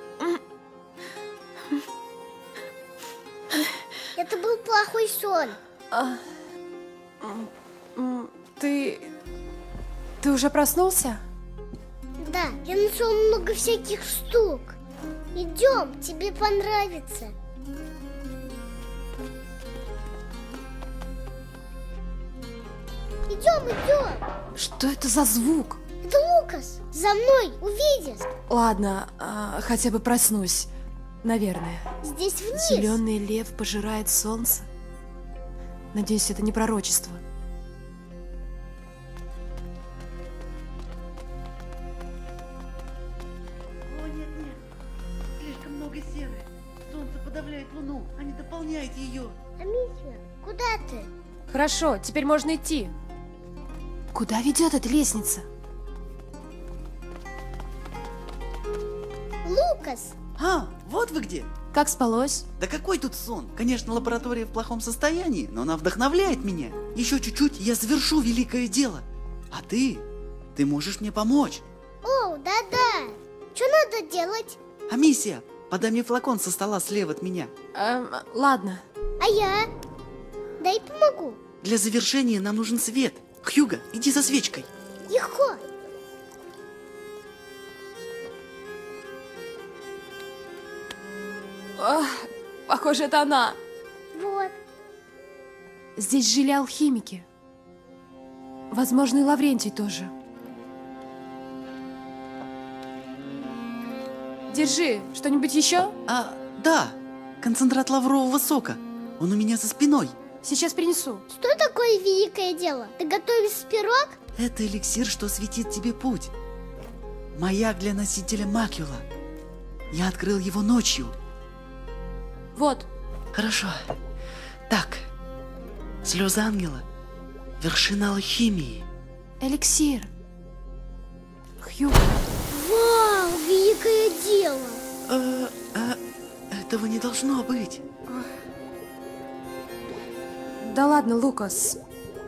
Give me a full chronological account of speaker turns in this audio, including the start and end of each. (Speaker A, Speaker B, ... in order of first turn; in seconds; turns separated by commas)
Speaker A: 4.2-5.6, Speaker B: 5.9-6.2, Speaker B: 7.2-9.1, Speaker B: 10.2-11.2, Speaker A: 12.2-14.8, Speaker A: 15.3-17.4, Speaker A: 23.3-24.2, Speaker B: 24.6-25.8, Speaker A: 26.0-28.3, Speaker B: 28.5-30.7, Speaker B: 31.2-31.9, Speaker A: 32.0-33.0, Speaker B: 32.5-34.7, Speaker B: 35.9-37.2, Speaker C: 43.9-44.6, Speaker C: 45.4-49.4, Speaker A: 49.6-51.1, Speaker B: 51.5-52.9, Speaker B: 54.1-55.5, Speaker A: 59.4-60.2, Speaker C: 60.4-61.5, Speaker B: 61.7-62.5, Speaker C: 62.6-71.6, Speaker A: 72.0-74.6, Speaker C: 74.9-77.5, Speaker B: 77.7-78.8, Speaker A: 79.2-79.7, Speaker A: 80.6-81.4, Speaker C: 81.6-84.7, Speaker A: 85.1-85.6, Speaker B: 91.8-93.6, Speaker A: 94.1-94.5, Speaker B: 96.0-97.3, Speaker B: 98.7-100.1, Speaker B: 104.5-106.0, Speaker C: 106.1-110.2, Speaker B: 110.4-111.2, Speaker A: 111.3-114.2, Speaker C: 114.4-116.3, Speaker C: 117.3-119.0, Speaker C: 119.9-121.2, Speaker B: 122.5-122.9, Speaker C: 123.3-124.0, Speaker C: 124.7-125.1, Speaker C: 126.0-126.9, Speaker C: 127.6-128.9, Speaker B: 129.4-130.1, Speaker B: 131.6-132.2, Speaker A: 132.5-134.8, Speaker C: 135.1-136.0, Speaker C: 136.5-137.8, Speaker B: 138.1-138.3, Speaker B: 140.6-141.8